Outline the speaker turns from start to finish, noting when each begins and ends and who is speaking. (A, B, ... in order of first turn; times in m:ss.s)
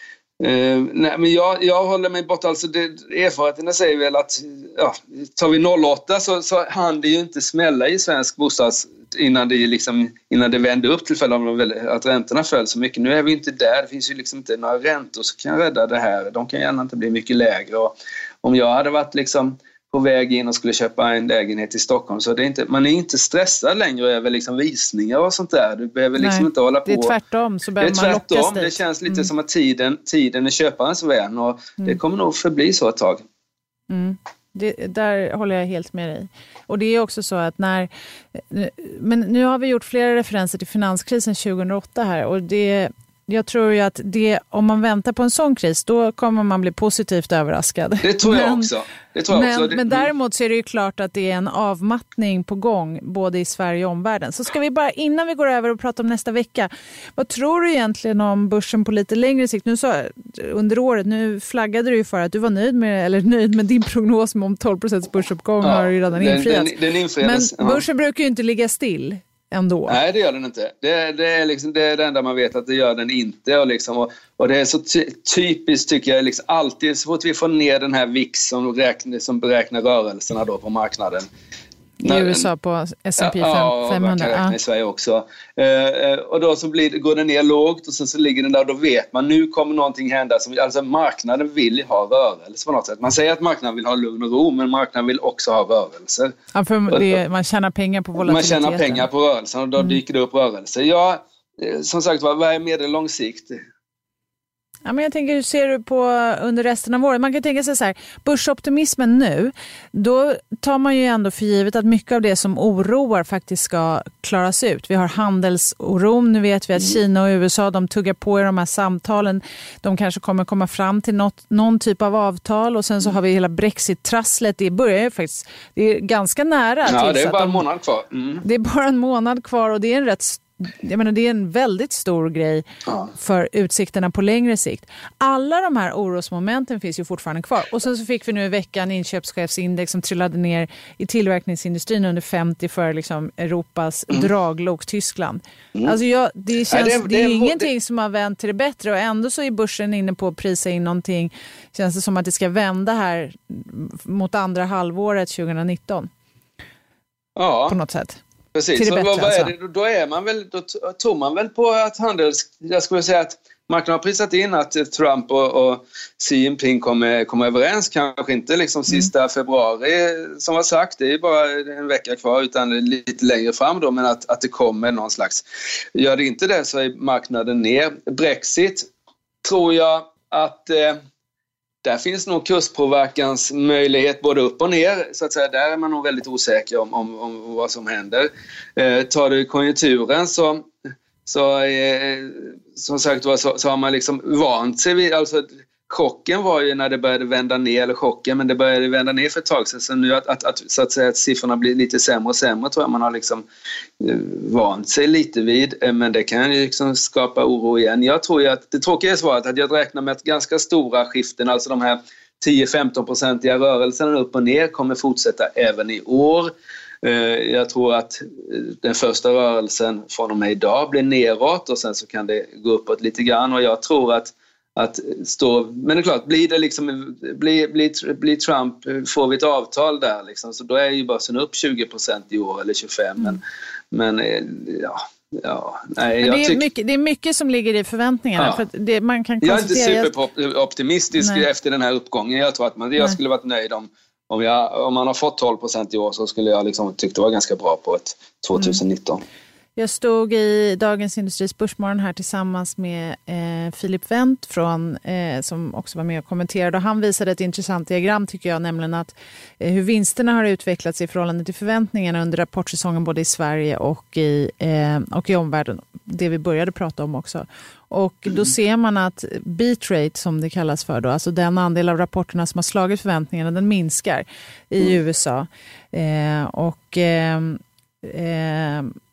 0:00.4-0:27.1 A
0:26.2-0:29.3 B
0:27.8-0:33.2 A
0:33.9-0:48.7 B
0:48.0-0:50.1 A
0:49.3-1:10.0 B
1:05.6-1:07.8 A
1:09.9-1:21.3 A
1:22.0-1:24.6 B
1:22.0-1:22.4 A
1:23.2-1:36.3 A
1:36.5-1:39.1 B
1:36.9-1:37.2 A
1:38.2-1:43.6 A
1:44.8-2:07.6 B
2:06.8-2:08.4 A
2:08.4-2:12.6 B
2:13.1-2:36.1 B
2:26.7-2:27.7 A
2:37.4-2:37.8 A
2:37.7-2:38.2 B
2:38.5-2:58.9 A
2:38.7-2:39.5 B
2:59.4-3:01.0 A
3:01.8-3:10.7 A
3:11.2-3:23.4 A
3:24.0-3:53.4 A
3:53.9-3:56.6 A
3:56.2-4:00.1 B
3:58.4-3:58.6 A
3:59.4-4:09.2 A
4:01.2-4:01.4 B
4:09.8-4:38.9 B